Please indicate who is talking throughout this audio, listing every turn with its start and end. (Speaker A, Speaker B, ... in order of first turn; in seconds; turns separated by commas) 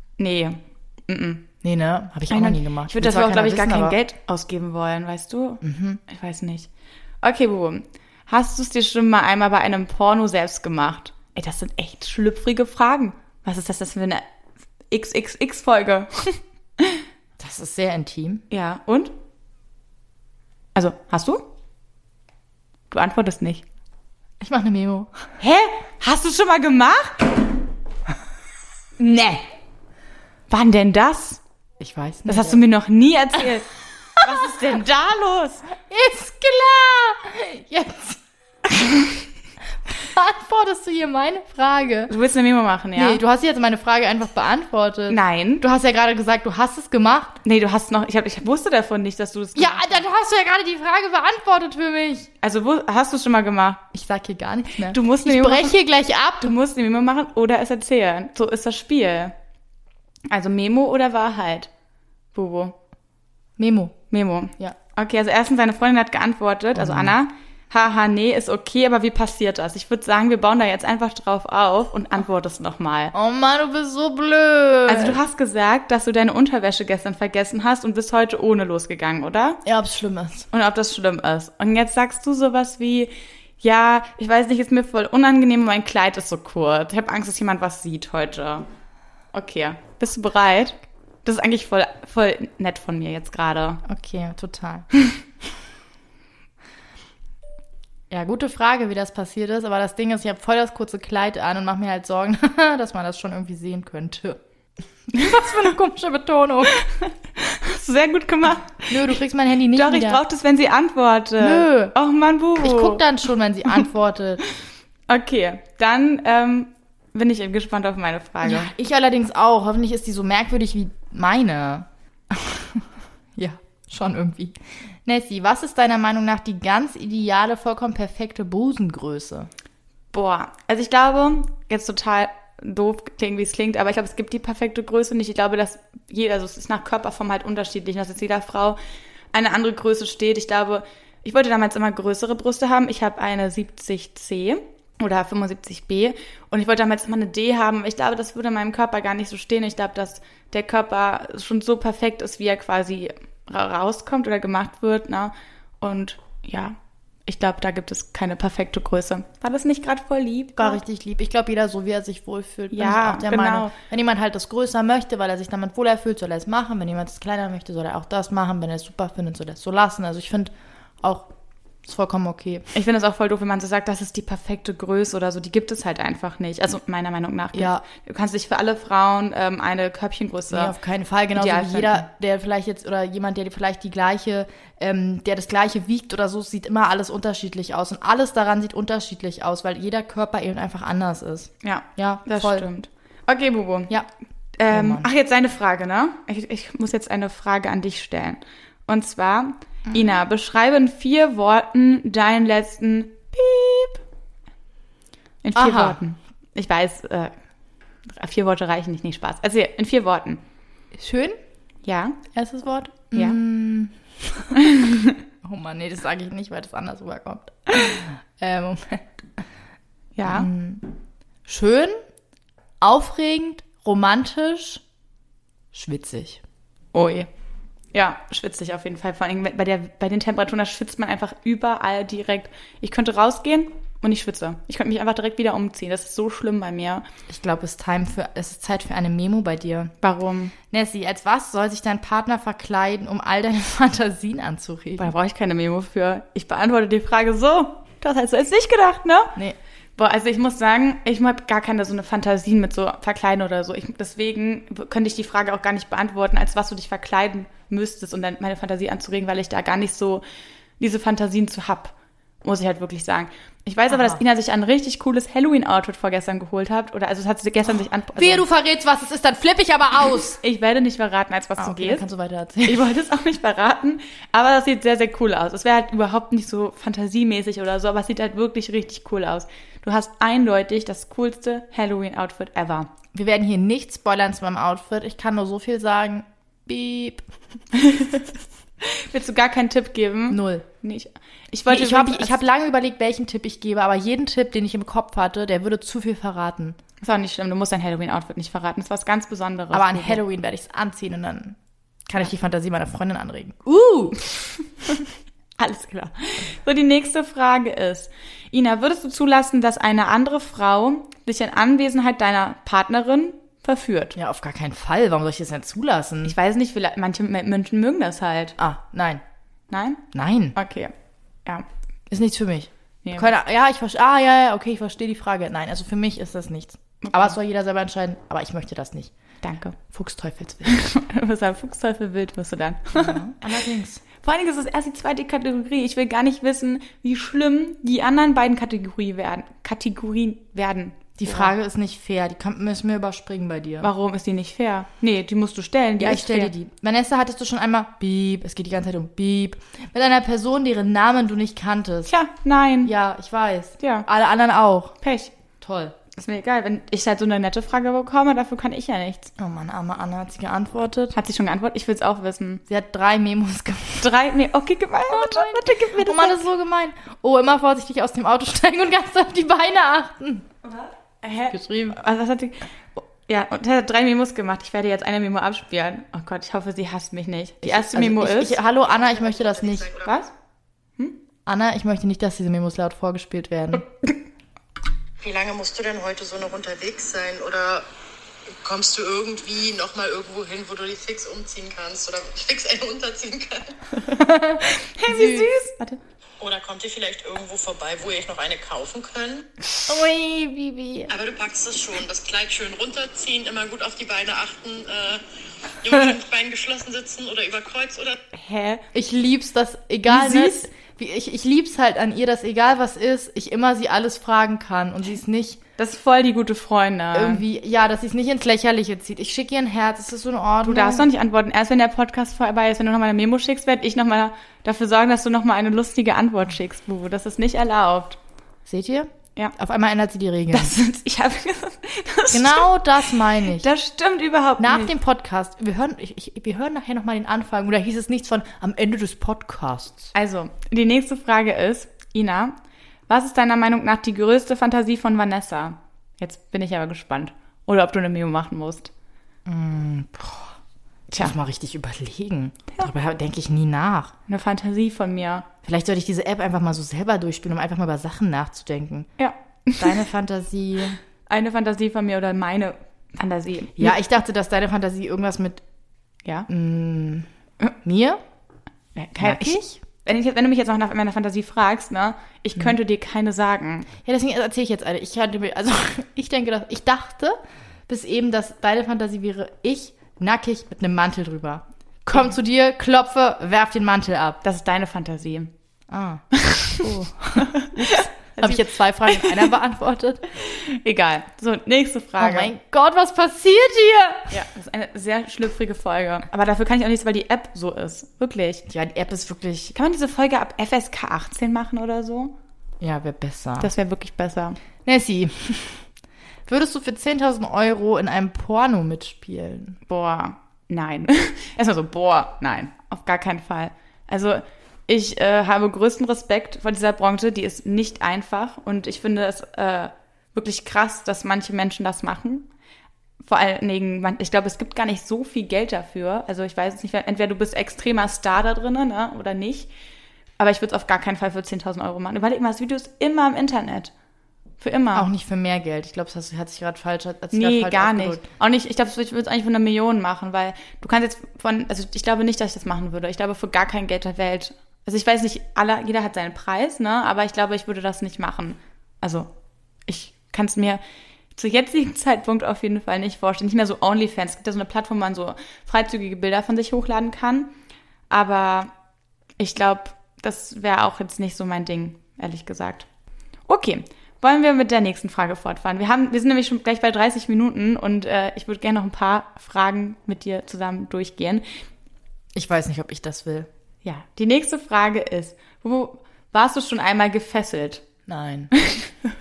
Speaker A: 0.2-1.5, Speaker B: 1.6-4.0, Speaker A: 2.3-6.7, Speaker B: 5.6-6.0, Speaker A: 7.2-14.3, Speaker A: 14.9-17.0, Speaker B: 17.4-18.4, Speaker A: 18.5-19.1, Speaker A: 20.7-21.4, Speaker A: 22.9-23.6, Speaker B: 24.4-25.1, Speaker A: 25.4-27.4, Speaker A: 29.0-29.4, Speaker A: 30.5-31.4, Speaker B: 31.8-32.6, Speaker A: 32.3-35.7, Speaker B: 35.9-38.2, Speaker B: 38.8-39.0, Speaker B: 39.9-42.1, Speaker A: 42.1-43.2, Speaker B: 42.9-47.4, Speaker A: 45.1-45.6, Speaker A: 47.4-50.0, Speaker B: 49.5-52.3, Speaker A: 52.4-53.9, Speaker B: 53.9-56.5, Speaker A: 54.8-55.7, Speaker A: 56.4-59.4, Speaker A: 60.3-61.7, Speaker A: 62.3-62.8, Speaker B: 63.6-63.9, Speaker A: 64.1-73.1, Speaker B: 66.8-67.1, Speaker B: 73.1-75.2, Speaker A: 74.9-79.6, Speaker B: 79.6-80.5, Speaker A: 80.5-88.7, Speaker A: 89.3-93.8, Speaker B: 93.8-94.9, Speaker B: 98.1-104.4, Speaker B: 105.1-106.8, Speaker A: 105.3-105.6, Speaker A: 106.7-109.2, Speaker B: 108.9-110.2, Speaker A: 109.7-113.0, Speaker B: 111.4-111.9, Speaker B: 112.6-114.4, Speaker A: 115.1-118.7, Speaker B: 118.4-129.5, Speaker A: 130.1-138.8, Speaker A: 139.3-160.8, Speaker B: 160.6-171.3, Speaker A: 162.7-163.7, Speaker B: 171.8-172.7, Speaker A: 172.7-180.7, Speaker B: 177.5-177.8, Speaker B: 180.5-192.7, Speaker A: 181.3-182.0, Speaker A: 191.6-193.9, Speaker A: 194.6-204.0, Speaker B: 194.7-195.1, Speaker A: 205.4-207.3, Speaker B: 205.5-206.0, Speaker A: 208.1-210.4, Speaker B: 210.9-211.4, Speaker A: 211.8-212.2, Speaker B: 212.3-214.6, Speaker A: 214.6-215.2, Speaker B: 215.4-219.4, Speaker A: 220.1-220.5, Speaker B: 220.2-220.9, Speaker B: 221.4-221.9, Speaker B: 222.8-224.8, Speaker B: 225.7-226.4, Speaker A: 226.9-227.3, Speaker A: 227.9-237.1, Speaker B: 237.3-239.9, Speaker A: 240.0-240.5, Speaker B: 240.7-245.1, Speaker A: 245.0-249.4, Speaker A: 250.0-260.2, Speaker A: 260.8-268.4, Speaker B: 263.9-264.2, Speaker B: 268.2-270.4, Speaker A: 270.4-272.0, Speaker B: 271.6-272.8, Speaker A: 272.6-282.9, Speaker B: 283.1-287.2, Speaker A: 287.7-292.4, Speaker B: 290.3-290.6, Speaker B: 291.7-296.8, Speaker A: 297.0-300.2, Speaker B: 299.7-301.6, Speaker B: 302.1-304.3, Speaker A: 305.6-314.1, Speaker B: 314.1-316.4, Speaker A: 316.2-318.6, Speaker B: 318.6-319.2, Speaker A: 319.7-320.0, Speaker B: 320.1-320.6, Speaker A: 320.5-320.9, Speaker B: 322.1-329.1, Speaker A: 323.0-323.3, Speaker A: 327.0-327.3, Speaker A: 329.4-329.8, Speaker B: 329.8-330.8, Speaker A: 330.6-333.5, Speaker B: 332.9-334.0, Speaker A: 334.2-341.5, Speaker B: 341.2-343.9, Speaker A: 343.8-346.5, Speaker B: 346.0-352.1, Speaker A: 352.1-352.9, Speaker B: 352.8-354.9, Speaker A: 353.8-354.1, Speaker A: 355.0-355.3, Speaker B: 355.6-355.9, Speaker A: 356.1-359.3, Speaker B: 359.4-361.1, Speaker A: 361.1-362.6, Speaker B: 362.7-364.1, Speaker A: 364.0-366.5, Speaker B: 365.1-370.5, Speaker A: 370.6-378.6, Speaker B: 371.5-372.0, Speaker B: 377.6-379.9, Speaker C: 378.6-380.1, Speaker A: 380.0-380.3, Speaker B: 381.4-383.9, Speaker C: 385.2-387.9, Speaker C: 388.5-393.8, Speaker A: 394.0-396.0, Speaker B: 394.1-395.5, Speaker C: 396.4-399.5, Speaker B: 399.9-401.1, Speaker C: 401.1-405.2, Speaker C: 405.8-408.2, Speaker A: 408.3-408.8, Speaker B: 408.9-415.6, Speaker A: 410.1-410.7, Speaker A: 415.8-417.4, Speaker B: 417.1-421.1, Speaker A: 420.6-428.2, Speaker B: 428.6-430.7, Speaker A: 430.5-434.9, Speaker B: 432.3-433.7, Speaker B: 434.6-440.1, Speaker A: 440.1-442.5, Speaker A: 443.1-448.9, Speaker B: 449.4-450.5, Speaker B: 451.1-454.1, Speaker A: 454.3-455.5, Speaker B: 455.6-459.1, Speaker A: 459.2-460.0, Speaker B: 459.8-461.0, Speaker A: 461.3-463.9, Speaker B: 463.8-465.6, Speaker B: 466.5-467.3, Speaker B: 467.8-468.2, Speaker A: 468.9-473.9, Speaker B: 469.2-469.8, Speaker B: 474.0-484.4, Speaker A: 484.4-485.5, Speaker B: 485.9-486.2, Speaker A: 486.3-489.5, Speaker B: 486.8-490.2, Speaker A: 490.4-492.5, Speaker B: 492.2-494.4, Speaker A: 494.3-498.6, Speaker B: 498.7-499.7, Speaker A: 499.7-502.3, Speaker B: 502.8-503.7, Speaker A: 503.6-504.6, Speaker B: 504.9-505.8, Speaker B: 506.4-509.8, Speaker A: 509.9-522.5, Speaker A: 523.2-529.7, Speaker A: 530.4-533.9, Speaker A: 534.6-535.1, Speaker B: 534.9-538.3, Speaker A: 537.3-549.3, Speaker A: 549.9-550.8, Speaker A: 551.3-557.5, Speaker A: 558.1-558.7, Speaker A: 559.4-562.9, Speaker A: 563.5-571.5, Speaker B: 572.4-573.5, Speaker A: 573.8-577.8, Speaker B: 578.1-578.5, Speaker A: 578.6-579.0